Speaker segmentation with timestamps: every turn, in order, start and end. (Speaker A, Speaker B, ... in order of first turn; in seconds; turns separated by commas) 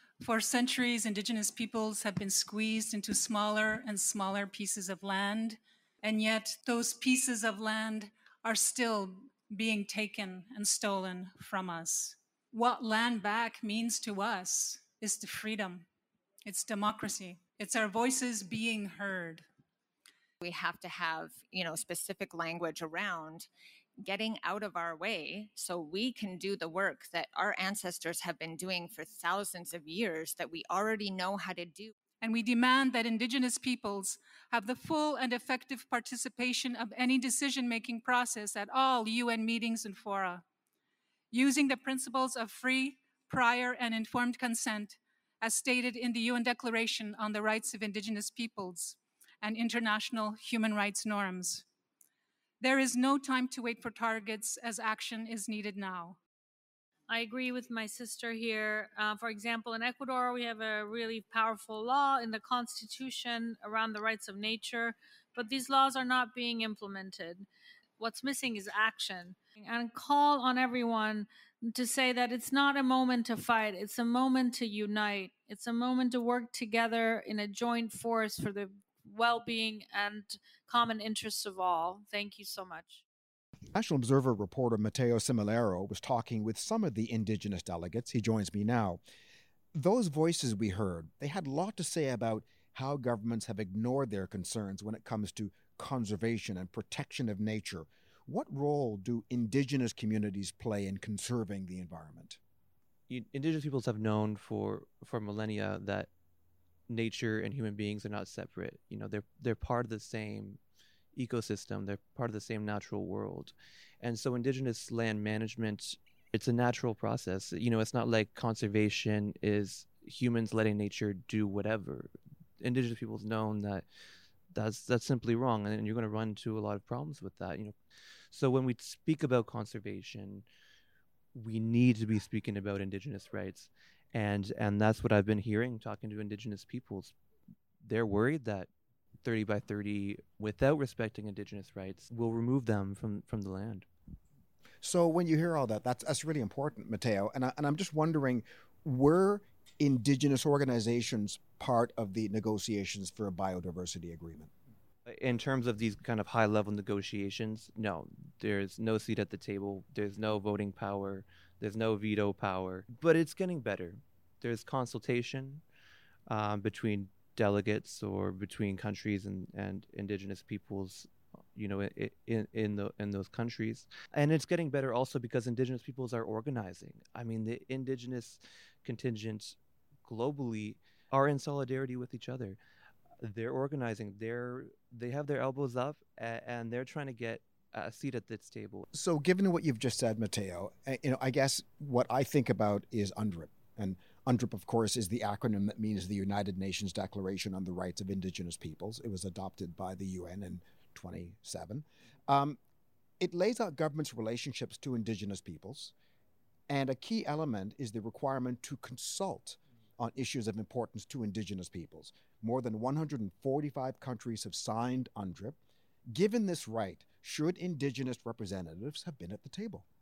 Speaker A: 0.2-15.8, Speaker A: 16.4-19.4, Speaker B: 20.4-23.5, Speaker B: 24.0-31.9, Speaker A: 32.2-40.4, Speaker A: 41.3-51.6, Speaker A: 52.6-56.2, Speaker C: 57.1-83.0, Speaker D: 83.7-89.0, Speaker D: 89.7-102.4, Speaker E: 103.1-106.1, Speaker E: 106.9-110.6, Speaker E: 111.1-123.8, Speaker E: 124.5-127.8, Speaker E: 128.3-130.4, Speaker E: 131.3-137.1, Speaker E: 137.8-138.7, Speaker E: 139.2-143.9, Speaker D: 144.8-154.5, Speaker E: 155.1-165.6, Speaker E: 166.3-182.6, Speaker E: 183.2-188.8, Speaker D: 188.9-202.6, Speaker D: 203.2-205.9, Speaker D: 206.7-215.6, Speaker D: 216.1-219.8